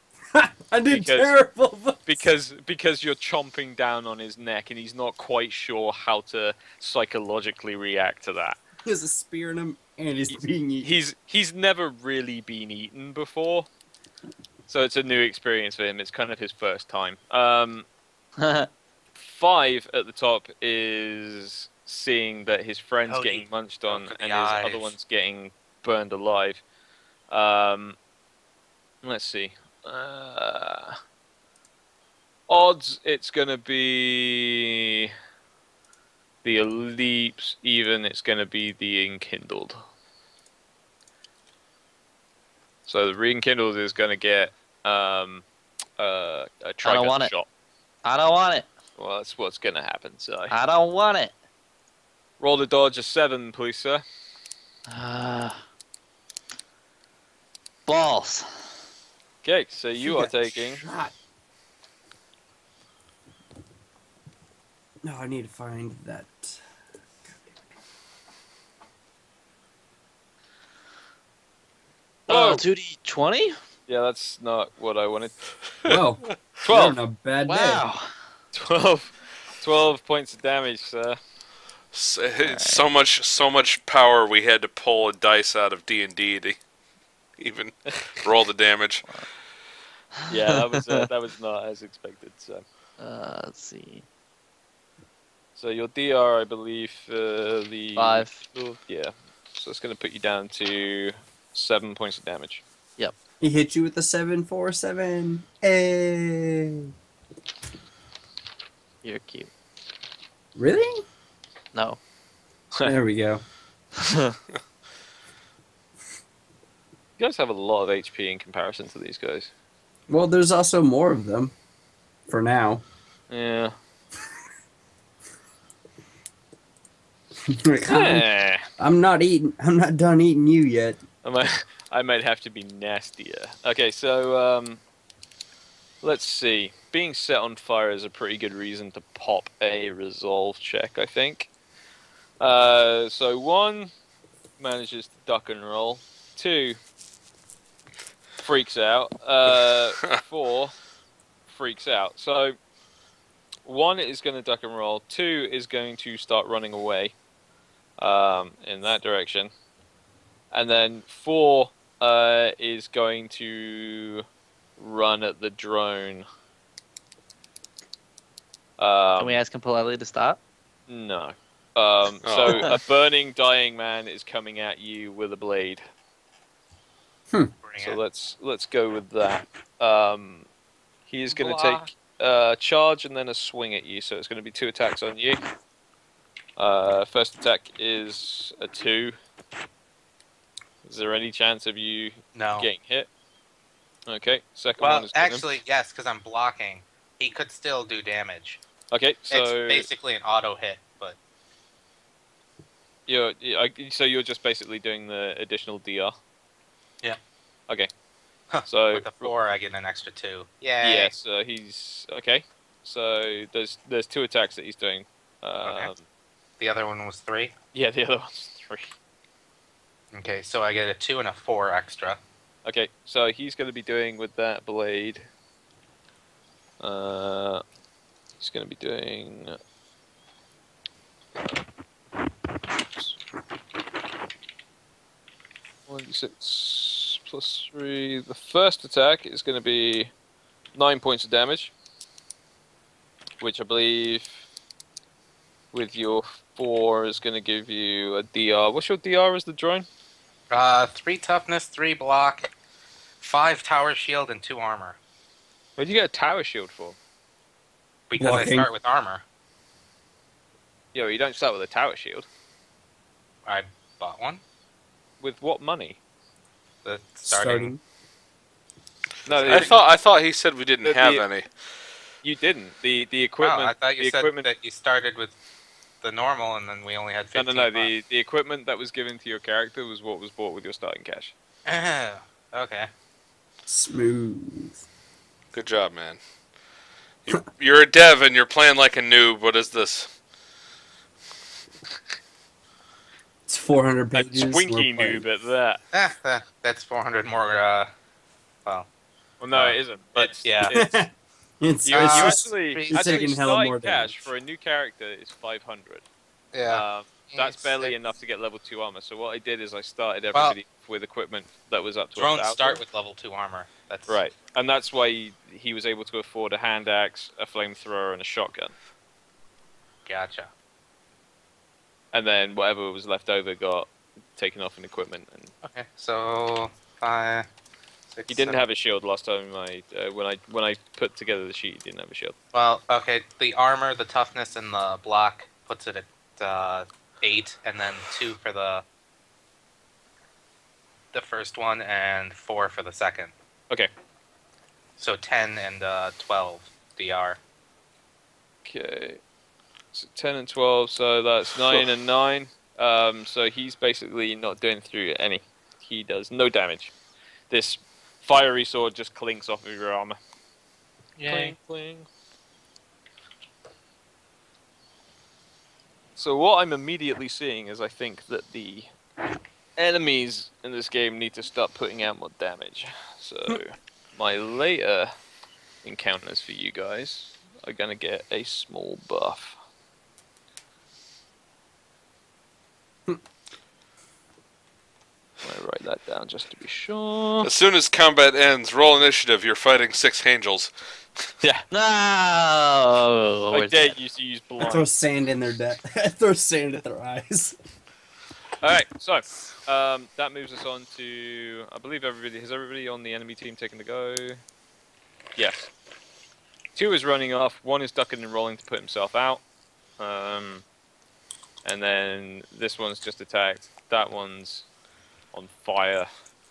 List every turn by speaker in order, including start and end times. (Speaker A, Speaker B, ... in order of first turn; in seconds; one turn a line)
Speaker A: 0.3-2.3
Speaker B: 0.9-1.3
Speaker B: 2.1-8.6
Speaker A: 8.8-11.0
Speaker B: 10.8-13.7
Speaker B: 14.7-17.9
Speaker C: 18.4-18.7
Speaker B: 19.2-26.6
Speaker D: 23.1-24.9
Speaker B: 27.3-28.0
Speaker B: 29.0-31.0
Speaker B: 32.5-35.1
Speaker B: 36.4-39.8
Speaker B: 42.9-45.5
Speaker B: 46.0-47.5
Speaker C: 46.8-47.3
Speaker C: 48.0-48.7
Speaker B: 49.0-50.5
Speaker C: 50.5-51.3
Speaker B: 52.4-54.0
Speaker C: 54.9-55.6
Speaker C: 57.9-58.6
Speaker B: 59.4-60.9
Speaker A: 60.0-61.1
Speaker A: 65.0-66.6
Speaker A: 67.3-67.6
Speaker C: 72.3-73.6
Speaker B: 72.3-72.6
Speaker B: 73.9-75.4
Speaker A: 75.9-77.8
Speaker B: 76.6-77.0
Speaker C: 77.5-78.1
Speaker B: 78.5-81.2
Speaker E: 81.9-86.6
Speaker C: 82.4-82.8
Speaker E: 87.4-89.1
Speaker C: 90.2-91.0
Speaker B: 90.3-92.6
Speaker C: 93.0-94.0
Speaker B: 95.6-102.6
Speaker C: 98.0-98.5
Speaker A: 103.4-106.9
Speaker C: 109.0-109.5
Speaker A: 110.6-111.0
Speaker C: 111.7-112.0
Speaker A: 112.8-113.4
Speaker C: 114.0-114.4
Speaker B: 117.2-119.5
Speaker A: 120.1-121.5
Speaker A: 122.3-122.8
Speaker B: 123.3-123.8
Speaker A: 127.4-131.0
Speaker B: 127.9-128.7
Speaker B: 131.2-134.8
Speaker B: 136.0-141.5
Speaker B: 142.4-143.9
Speaker B: 144.6-146.8
Speaker B: 148.4-150.7
Speaker B: 151.5-152.6
Speaker B: 153.7-157.2
Speaker B: 158.0-159.5
Speaker B: 160.5-164.2
Speaker B: 164.8-166.3
Speaker B: 168.8-169.4
Speaker C: 169.2-170.4
Speaker B: 170.9-175.8
Speaker E: 172.2-172.8
Speaker C: 172.5-172.8
Speaker D: 177.6-178.0
Speaker B: 177.8-180.5
Speaker B: 181.1-185.4
Speaker D: 181.3-181.9
Speaker B: 186.6-189.2
Speaker B: 190.8-193.1
Speaker D: 192.3-192.7
Speaker B: 194.1-195.6
Speaker D: 194.8-198.6
Speaker B: 198.9-199.9
Speaker D: 199.3-201.2
Speaker B: 203.1-206.2
Speaker D: 208.5-211.1
Speaker B: 208.7-209.3
Speaker B: 210.8-216.0
Speaker D: 215.7-215.9
Speaker D: 216.6-217.5
Speaker B: 217.7-218.9
Speaker D: 220.1-222.2
Speaker B: 222.7-225.3
Speaker B: 226.8-227.6
Speaker B: 228.4-229.6
Speaker B: 235.9-240.1
Speaker B: 240.8-241.7
Speaker B: 243.4-244.4
Speaker B: 245.7-249.9
Speaker D: 250.5-252.5
Speaker D: 253.2-255.0
Speaker B: 255.8-257.0
Speaker D: 258.1-259.2
Speaker A: 258.2-258.7
Speaker B: 260.9-262.3
Speaker D: 263.4-264.4
Speaker B: 265.2-266.0
Speaker D: 266.8-267.7
Speaker A: 267.3-267.8
Speaker B: 269.3-269.8
Speaker D: 269.3-269.8
Speaker E: 269.5-271.5
Speaker B: 270.8-271.2
Speaker B: 272.2-274.5
Speaker D: 273.4-275.4
Speaker D: 276.0-277.9
Speaker B: 277.3-281.3
Speaker D: 281.7-282.9
Speaker A: 283.7-284.8
Speaker E: 285.5-286.2
Speaker E: 287.3-290.2
Speaker A: 293.5-295.3
Speaker B: 294.1-295.8
Speaker D: 295.9-297.9
Speaker B: 299.4-300.9
Speaker D: 299.5-300.8
Speaker A: 300.7-304.3
Speaker D: 301.9-303.1
Speaker B: 301.9-306.1
Speaker D: 306.5-307.9
Speaker B: 306.7-312.8
Speaker D: 312.2-314.2
Speaker B: 314.1-318.7
Speaker D: 320.1-320.5
Speaker B: 322.1-325.5
Speaker D: 325.6-327.5
Speaker D: 328.1-328.6
Speaker B: 328.3-332.4
Speaker D: 332.5-338.8
Speaker D: 341.1-343.3
Speaker D: 345.0-347.4
Speaker B: 348.6-349.2
Speaker B: 349.9-356.9
Speaker B: 357.5-360.2
Speaker D: 361.2-361.6
Speaker B: 361.3-362.1
Speaker B: 366.2-368.9
Speaker B: 369.8-375.1
Speaker B: 375.8-379.6
Speaker B: 385.4-387.5
Speaker E: 387.4-390.7
Speaker C: 391.7-393.9
Speaker B: 393.5-394.9
Speaker A: 394.6-397.6
Speaker B: 398.6-404.4
Speaker B: 405.4-405.7
Speaker B: 406.8-409.4
Speaker B: 410.0-410.6
Speaker B: 411.6-414.7
Speaker B: 415.3-416.1